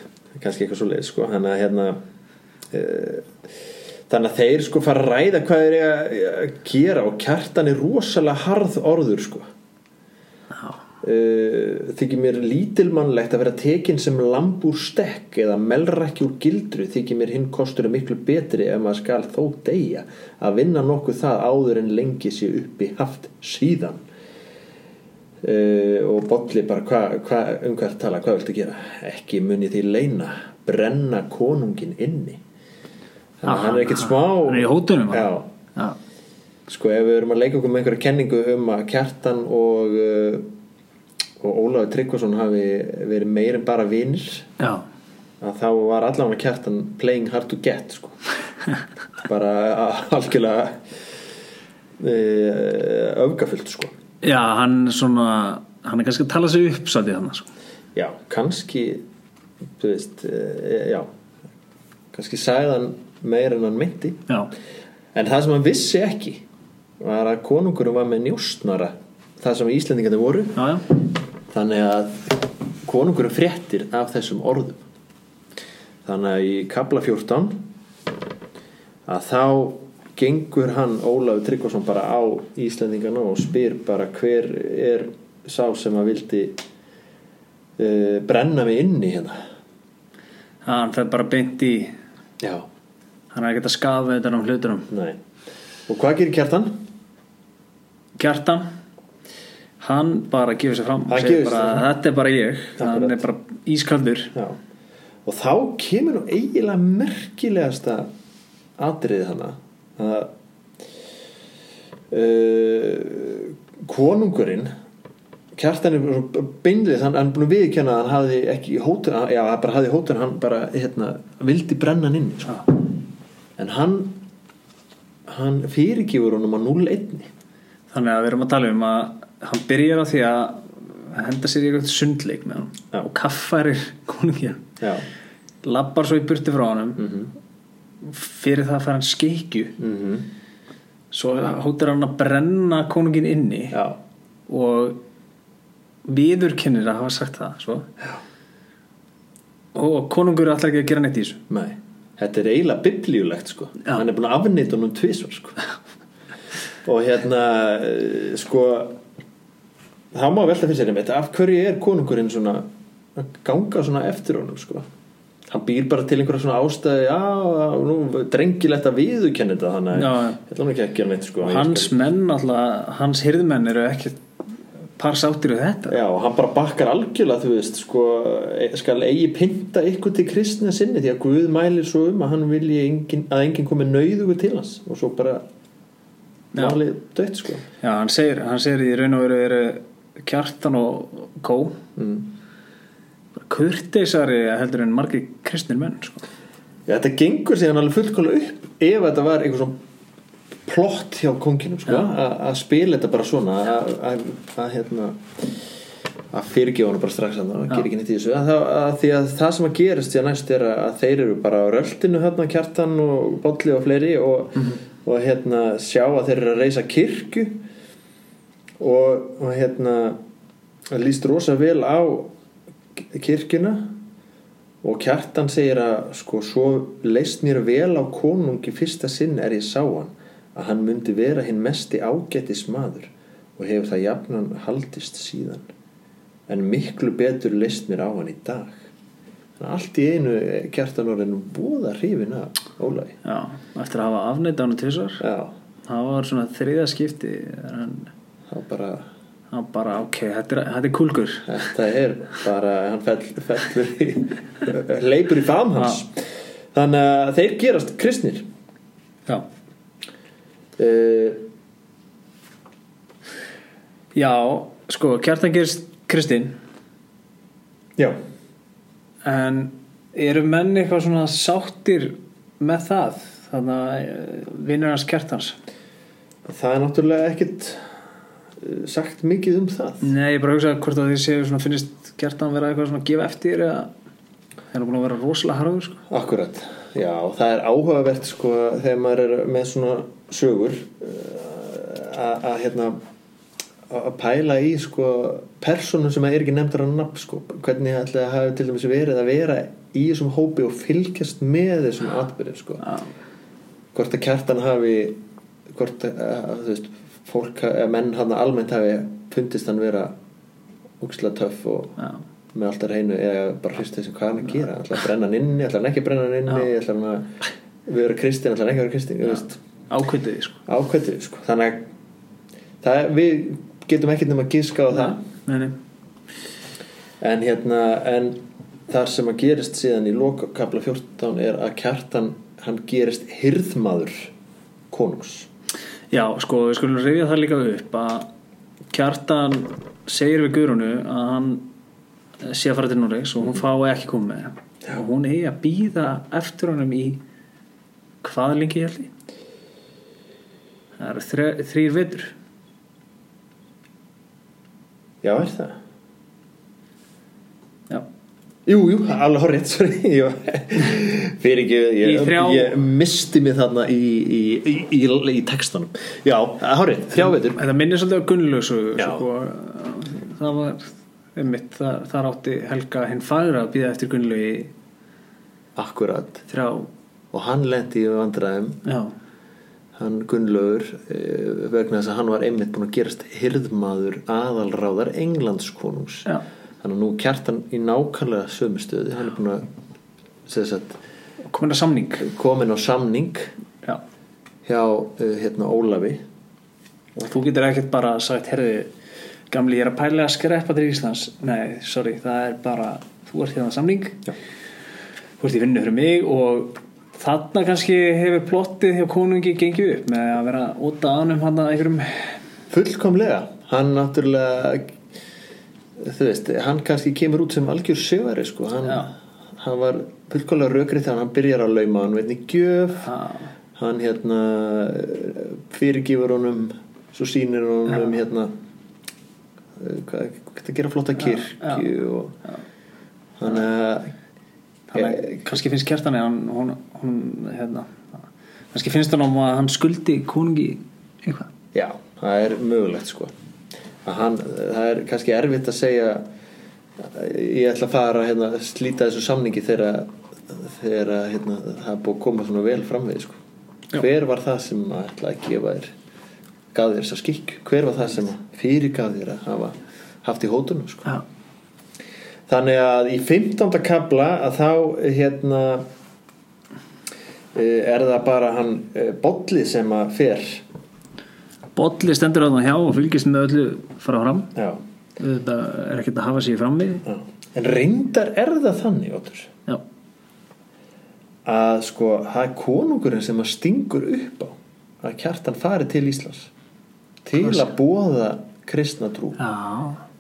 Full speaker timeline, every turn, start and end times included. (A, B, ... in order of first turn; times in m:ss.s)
0:00.4-0:02.0 A
0:02.7-0:03.3 A
0:04.1-0:09.5 A
0:11.0-0:24.0 A
0:25.4-0:32.4 A
0:33.4-0:35.5 A
0:33.5-0:36.0 B
0:36.7-0:40.5 A
0:41.4-0:44.5 A
0:44.6-0:44.9 B
0:45.4-0:48.2 A
0:49.2-0:51.0 A
0:52.0-0:53.9 A
0:54.2-0:57.5 B
0:58.0-0:59.0 A
0:59.8-1:01.1 A
1:02.1-1:04.3 A
1:05.2-1:06.4 A
1:07.0-1:10.6 A
1:10.6-1:10.8 B
1:11.5-1:14.8 A
1:16.1-1:17.7 A
1:19.1-1:26.6 A
1:27.8-1:29.4 A
1:30.6-1:32.0 B
1:32.4-1:32.7 A
1:33.3-1:34.9 B
1:34.9-1:35.2 A
1:35.9-1:36.8 A
1:38.2-1:38.7 B
1:39.8-1:44.3 B
1:41.1-1:41.9 A
1:42.8-1:43.2 A
1:45.3-1:48.1 A
1:48.8-1:50.3 A
1:52.1-1:54.7 A
1:55.6-2:02.8 A
2:03.6-2:04.2 A
2:05.3-2:07.3 A
2:07.9-2:14.7 B
2:14.8-2:15.1 A
2:15.6-2:17.1 B
2:17.0-2:17.3 A
2:18.0-2:19.7 B
2:19.8-2:20.3 A
2:21.1-2:23.8 B
2:23.7-2:24.0 A
2:24.5-2:25.0 B
2:26.1-2:27.9 B
2:29.7-2:31.4 B
2:31.5-2:35.6 A
2:36.8-2:39.0 A
2:40.1-2:44.8 A
2:45.5-2:51.9 A
2:49.9-2:50.4 B
2:51.4-2:54.2 B
2:55.0-2:56.0 B
2:55.9-3:05.4 A
3:06.5-3:07.7 A
3:07.8-3:11.8 B
3:12.0-3:12.3 A
3:13.4-3:16.2 B
3:16.9-3:19.8 A
3:20.7-3:25.6 A
3:26.3-3:37.6 A
3:38.8-3:40.2 A
3:40.9-3:42.3 A
3:43.1-3:43.9 A
3:44.8-3:55.6 A
3:56.5-3:58.8 A
3:59.6-4:03.2 A
4:03.2-4:05.2 B
4:05.2-4:05.5 A
4:05.8-4:08.1 B
4:08.5-4:09.1 A
4:09.5-4:11.6 B
4:11.5-4:18.5 A
4:20.8-4:21.4 A
4:24.1-4:26.6 B
4:29.2-4:35.6 B
4:36.5-4:38.0 A
4:38.6-4:40.1 A
4:40.0-4:43.9 B
4:44.7-4:46.0 B
4:46.1-4:53.0 A
4:53.9-5:02.9 A
5:03.9-5:10.2 A
5:11.0-5:12.0 A
5:12.5-5:19.6 A
5:19.9-5:20.6 B
5:20.7-5:21.9 A
5:22.8-5:25.2 A
5:24.9-5:25.8 B
5:27.2-5:34.3 A
5:34.9-5:35.5 A
5:36.1-5:38.3 B
5:38.9-5:41.7 B
5:42.4-5:47.2 B
5:48.2-5:49.1 B
5:51.0-5:52.3 B
5:55.2-5:55.8 A
5:58.7-6:07.6 A
6:02.0-6:02.8 B
6:07.2-6:14.7 B
6:09.0-6:09.2 A
6:15.8-6:16.5 A
6:16.5-6:16.9 B
6:17.3-6:18.8 A
6:18.8-6:19.1 B
6:20.0-6:26.3 A
6:26.8-6:29.7 A
6:30.5-6:31.0 A
6:31.4-6:32.3 B
6:32.2-6:33.5 A
6:34.7-6:36.2 A
6:37.2-6:38.9 B
6:39.5-6:44.2 B
6:45.4-6:52.4 B
6:52.7-6:54.9 A
6:56.0-7:03.1 A
7:03.0-7:03.5 B
7:03.8-7:08.5 A
7:09.8-7:12.4 A
7:11.3-7:11.8 B
7:13.4-7:14.1 A
7:14.9-7:21.5 B
7:15.0-7:15.5 A
7:21.7-7:23.3 A
7:24.0-7:26.2 A
7:27.0-7:33.4 A
7:33.9-7:35.9 A
7:36.7-7:41.2 A
7:42.5-7:45.9 A
7:47.6-7:50.6 A
7:51.8-7:54.5 B
7:54.6-7:54.8 A
7:55.2-7:57.0 B
7:57.1-7:59.5 A
8:01.5-8:06.5 A
8:07.2-8:09.4 A
8:07.4-8:07.7 B
8:09.4-8:10.0 B